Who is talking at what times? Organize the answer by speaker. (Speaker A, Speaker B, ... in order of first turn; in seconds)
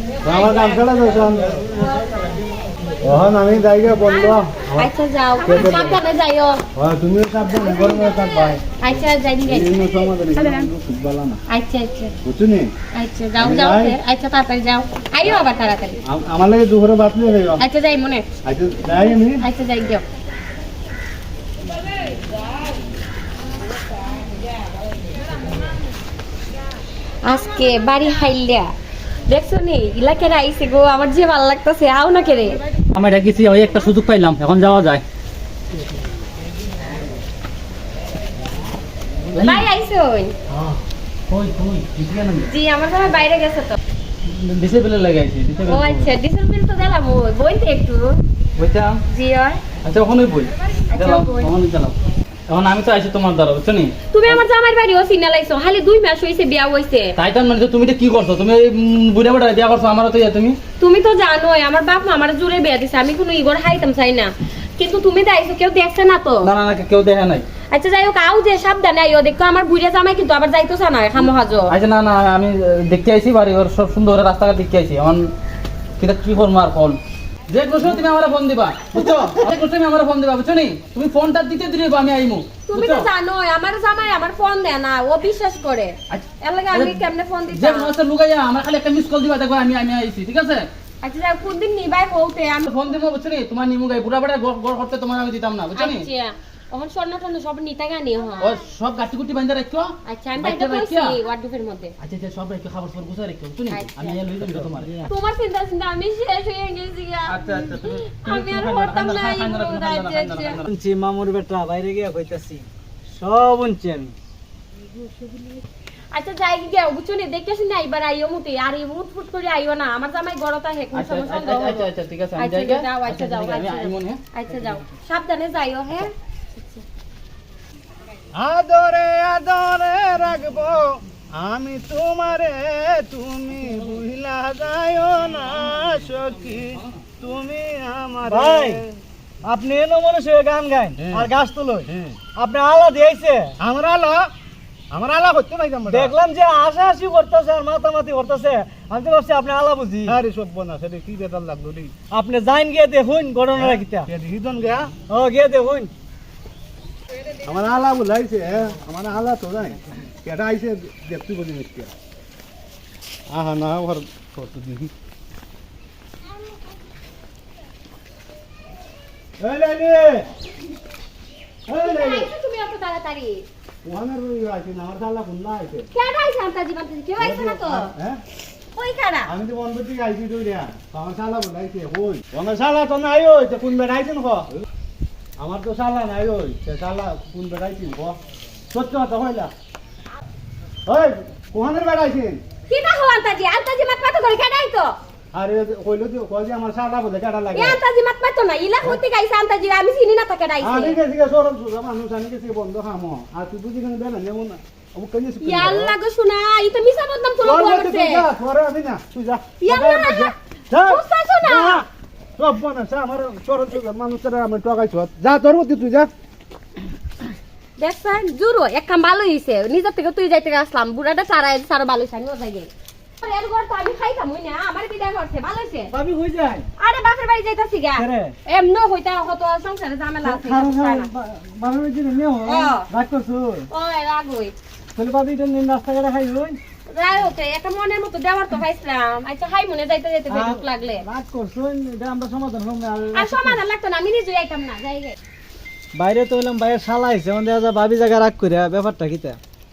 Speaker A: 0.2-1.6, 3.0-4.9, 5.4-6.0, 6.7-8.6, 9.4-11.4, 12.2-12.7, 13.4-14.0, 16.1-17.6, 18.4-19.4, 128.3-138.9, 141.0-141.3, 141.8-142.2, 143.6-144.3, 144.9-146.1, 150.0-151.9, 153.5-154.9, 157.4-161.9, 163.3-164.9, 169.4-170.3, 171.7-172.3, 173.8-175.9, 177.2-178.2, 179.2-184.5, 185.4-188.2, 188.7-189.5, 190.8-192.4, 195.3-197.8, 200.6-205.9, 207.4-211.8, 212.4-216.1
Speaker B: 4.1-6.6, 7.6-10.7, 11.5-12.1, 12.9-16.0, 17.6-18.2, 19.3-20.0, 27.2-28.7, 29.3-32.6, 39.4-40.3, 42.5-43.8, 45.6-48.2, 49.1-49.6, 50.8-51.5, 54.1-57.1, 60.8-66.5, 67.7-71.7, 82.7-87.9, 91.0-92.7, 95.7-98.5, 100.0-101.9, 103.7-104.2, 105.0-110.6, 116.1-121.8, 122.4-126.8, 171.8-173.5, 175.9-177.9, 178.7-179.3, 192.7-195.0, 197.5-201.0, 205.4-208.3, 209.6-211.8, 217.8-225.9, 226.8-231.1, 232.4-232.9, 233.7-234.5, 236.9-241.1, 243.1-245.2
Speaker C: 32.9-35.0, 39.3-39.7, 40.5-42.5, 44.2-46.1, 48.5-49.0, 49.8-52.0, 52.5-54.4, 57.2-60.6, 66.4-67.4, 71.2-75.3, 76.0-77.0, 77.5-83.1, 86.1-90.7, 92.6-96.0, 98.4-101.2, 102.0-104.9, 107.3-110.7, 120.9-124.2
Speaker D: 104.4-105.1, 110.7-114.1, 138.3-138.8, 139.4-143.6, 145.9-150.2, 152.1-154.1, 155.1-155.9, 225.9-226.7, 227.9-228.3, 230.2-233.7, 234.9-236.6, 240.3-243.6, 245.9-249.4